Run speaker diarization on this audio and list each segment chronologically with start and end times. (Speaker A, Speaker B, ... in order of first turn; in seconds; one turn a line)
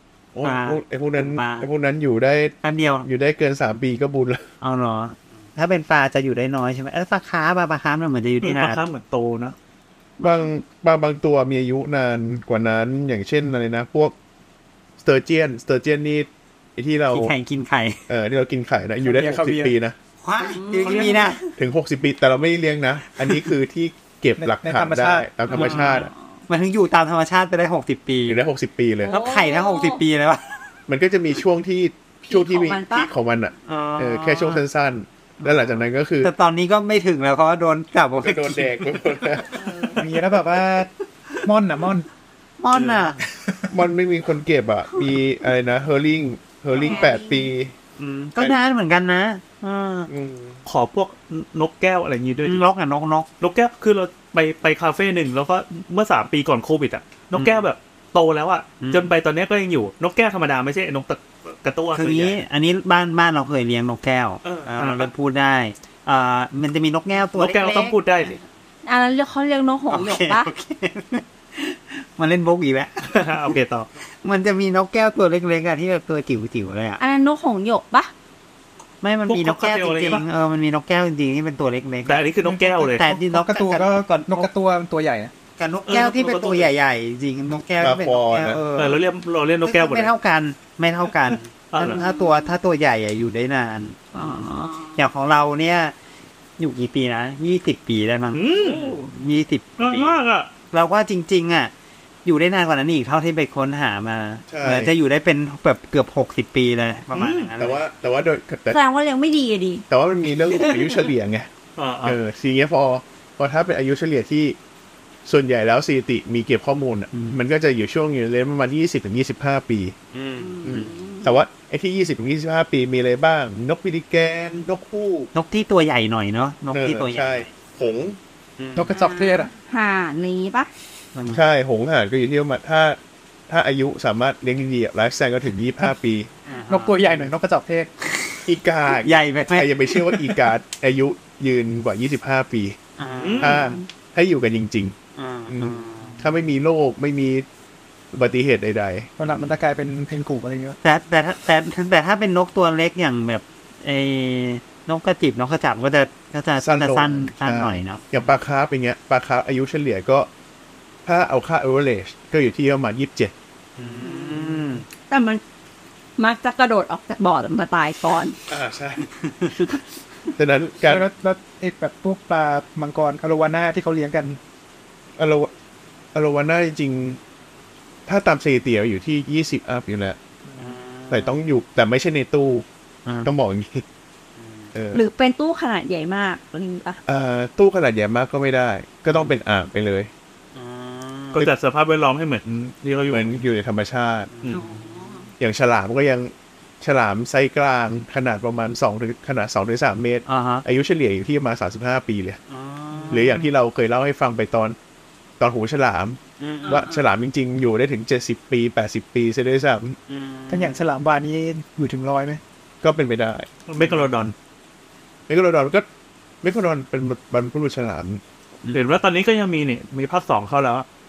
Speaker A: 0.3-4.4
Speaker B: 0.4-1.7
Speaker B: 2.6-3.1
Speaker B: 4.6-8.8
Speaker C: 8.4-9.6
Speaker A: 10.2-14.1
Speaker A: 15.0-17.3
Speaker B: 17.1-18.0
Speaker A: 18.1-19.9
Speaker D: 19.0-19.7
Speaker B: 20.2-21.4
Speaker E: 20.4-21.3
Speaker A: 21.6-26.1
Speaker D: 24.4-25.4
Speaker B: 25.5-28.4
Speaker E: 25.6-26.0
Speaker A: 28.2-29.2
Speaker B: 29.1-30.7
Speaker E: 29.1-30.0
Speaker A: 30.9-36.3
Speaker E: 32.3-33.1
Speaker B: 33.6-34.6
Speaker B: 35.4-38.9
Speaker A: 38.2-39.7
Speaker E: 39.5-40.0
Speaker D: 40.0-40.9
Speaker D: 41.4-42.1
Speaker B: 42.6-43.2
Speaker C: 42.7-43.0
Speaker D: 43.3-43.7
Speaker A: 43.7-47.7
Speaker E: 46.7-47.5
Speaker B: 48.0-50.1
Speaker A: 50.1-50.6
Speaker C: 50.6-52.6
Speaker B: 52.4-53.3
Speaker C: 53.4-62.4
Speaker B: 57.3-57.6
Speaker B: 58.8-59.1
Speaker B: 61.9-68.0
Speaker C: 64.4-65.1
Speaker C: 67.3-68.4
Speaker E: 68.8-70.5
Speaker B: 69.9-73.1
Speaker C: 73.0-73.9
Speaker B: 74.2-77.0
Speaker E: 77.0-78.1
Speaker B: 79.0-84.5
Speaker C: 79.3-80.2
Speaker C: 82.0-83.1
Speaker D: 83.1-85.3
Speaker B: 85.6-89.0
Speaker C: 85.8-86.7
Speaker A: 87.8-88.6
Speaker C: 88.8-90.1
Speaker B: 89.6-94.4
Speaker C: 91.7-92.0
Speaker E: 94.1-95.0
Speaker B: 95.0-95.9
Speaker B: 96.6-100.2
Speaker C: 98.3-99.0
Speaker C: 99.8-100.5
Speaker B: 100.7-101.7
Speaker B: 102.2-107.8
Speaker A: 104.5-104.9
Speaker C: 107.1-107.5
Speaker A: 107.6-108.8
Speaker E: 108.7-109.8
Speaker A: 109.9-111.5
Speaker E: 110.5-111.1
Speaker C: 111.8-112.2
Speaker A: 112.0-114.6
Speaker A: 115.2-119.9
Speaker B: 120.1-120.9
Speaker E: 120.4-121.4
Speaker A: 120.6-125.3
Speaker B: 125.3-127.5
Speaker A: 126.7-128.2
Speaker B: 128.6-128.9
Speaker D: 128.7-129.5
Speaker E: 128.9-130.7
Speaker B: 131.1-131.4
Speaker A: 131.3-136.3
Speaker B: 136.4-137.1
Speaker D: 136.7-137.9
Speaker B: 138.0-138.4
Speaker A: 138.4-142.8
Speaker B: 139.0-140.5
Speaker B: 143.0-143.7
Speaker C: 143.2-143.6
Speaker A: 143.4-144.9
Speaker B: 145.1-146.2
Speaker A: 145.5-147.4
Speaker A: 148.1-149.1
Speaker D: 149.2-150.8
Speaker B: 150.8-158.0
Speaker A: 156.6-160.3
Speaker A: 161.0-163.3
Speaker B: 163.8-164.8
Speaker E: 164.0-165.4
Speaker E: 166.2-168.4
Speaker A: 168.5-169.1
Speaker B: 169.2-169.5
Speaker A: 170.3-171.1
Speaker D: 170.8-174.4
Speaker A: 175.2-175.5
Speaker A: 176.1-177.2
Speaker A: 178.1-180.2
Speaker B: 180.6-181.3
Speaker A: 181.1-182.7
Speaker A: 183.2-183.8
Speaker B: 184.3-184.7
Speaker A: 184.7-185.0
Speaker E: 184.9-187.0
Speaker A: 187.1-190.1
Speaker B: 190.5-191.4
Speaker C: 191.3-193.4
Speaker A: 193.1-194.5
Speaker B: 194.3-195.2
Speaker E: 194.5-195.3
Speaker A: 195.4-202.4
Speaker B: 200.3-200.6
Speaker B: 202.5-203.4
Speaker A: 203.1-204.8
Speaker A: 205.4-210.0
Speaker B: 206.4-206.9
Speaker E: 206.7-206.9
Speaker B: 210.1-210.8
Speaker D: 210.5-212.4
Speaker A: 212.8-213.5
Speaker C: 213.7-214.3
Speaker A: 215.3-215.9
Speaker A: 216.4-218.2
Speaker C: 218.7-220.8